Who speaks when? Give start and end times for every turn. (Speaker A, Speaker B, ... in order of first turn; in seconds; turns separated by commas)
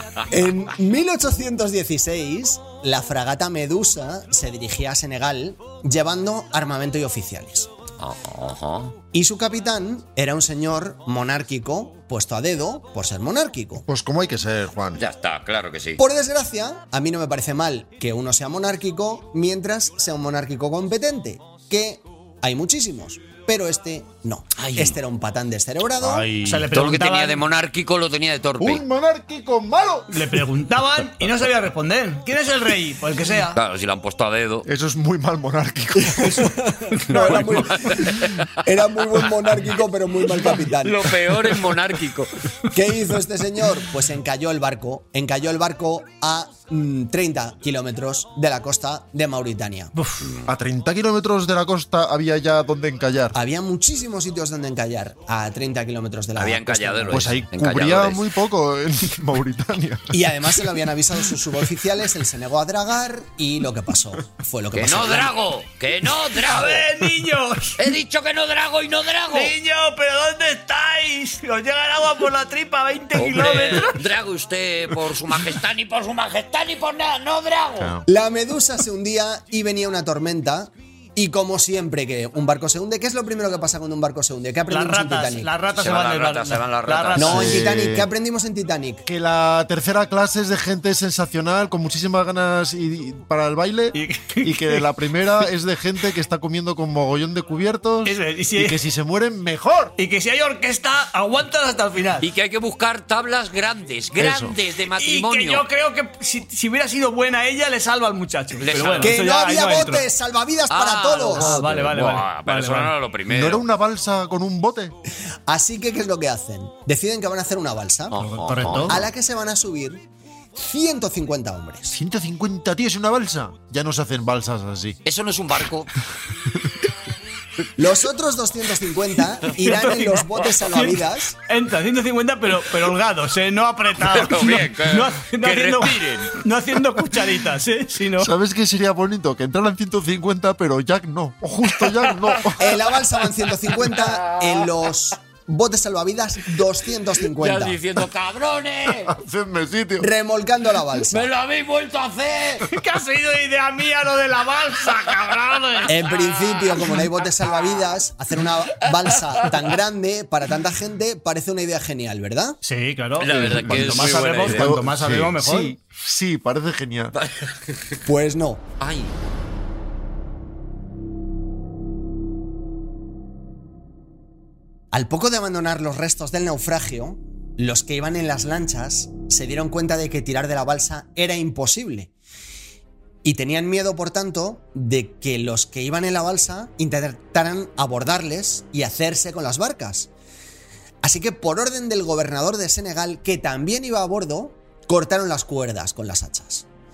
Speaker A: 0.3-7.7, Speaker B: 8.0-8.9, Speaker A: 9.1-13.8, Speaker C: 13.9-15.0, Speaker B: 15.0-16.0, Speaker A: 16.0-26.3, Speaker B: 24.6-25.0, Speaker B: 26.0-28.8, Speaker D: 26.4-27.4, Speaker C: 28.6-30.4, Speaker D: 30.1-33.6, Speaker B: 33.5-34.7, Speaker C: 34.6-36.5, Speaker A: 36.0-41.1, Speaker D: 36.9-37.7, Speaker B: 37.5-38.5, Speaker B: 40.8-42.4, Speaker A: 42.7-49.9, Speaker D: 50.0-50.2, Speaker B: 50.2-50.5, Speaker C: 50.5-53.4, Speaker A: 53.3-57.4, Speaker B: 56.4-58.2, Speaker C: 57.1-60.2, Speaker A: 60.1-65.3, Speaker B: 64.7-66.9, Speaker D: 66.3-67.8, Speaker B: 67.8-69.5, Speaker D: 69.3-74.0, Speaker B: 73.2-77.9, Speaker C: 77.8-78.1, Speaker A: 78.1-85.5, Speaker D: 84.7-87.6, Speaker B: 85.8-87.3, Speaker A: 87.2-89.0, Speaker C: 87.2-88.1, Speaker C: 89.1-100.0, Speaker D: 93.9-94.9, Speaker D: 98.0-98.8, Speaker D: 100.0-102.3, Speaker B: 102.2-105.6, Speaker C: 104.2-104.6, Speaker D: 105.0-110.1, Speaker B: 108.6-109.2, Speaker A: 109.0-111.6, Speaker B: 110.7-113.6, Speaker D: 111.3-112.9, Speaker C: 113.3-115.0, Speaker A: 115.5-118.2, Speaker B: 118.1-119.0, Speaker D: 118.2-119.0, Speaker A: 118.8-120.0, Speaker A: 120.5-122.0, Speaker C: 121.9-125.0, Speaker B: 125.0-125.9, Speaker A: 127.8-131.4, Speaker D: 129.6-138.3, Speaker B: 134.0-136.4, Speaker C: 138.2-142.7, Speaker B: 141.8-142.6, Speaker A: 142.6-147.8, Speaker B: 144.3-144.7, Speaker B: 147.3-149.2, Speaker C: 149.0-150.1, Speaker A: 150.0-151.3, Speaker B: 151.1-152.7, Speaker D: 152.7-155.9, Speaker B: 155.1-156.8, Speaker A: 155.9-162.6, Speaker B: 159.0-159.6, Speaker D: 162.6-165.8, Speaker B: 163.2-164.8, Speaker C: 163.3-167.2, Speaker B: 167.2-168.0, Speaker A: 168.0-168.6, Speaker B: 168.8-169.1, Speaker A: 174.9-182.1, Speaker A: 183.2-190.1, Speaker A: 191.0-196.7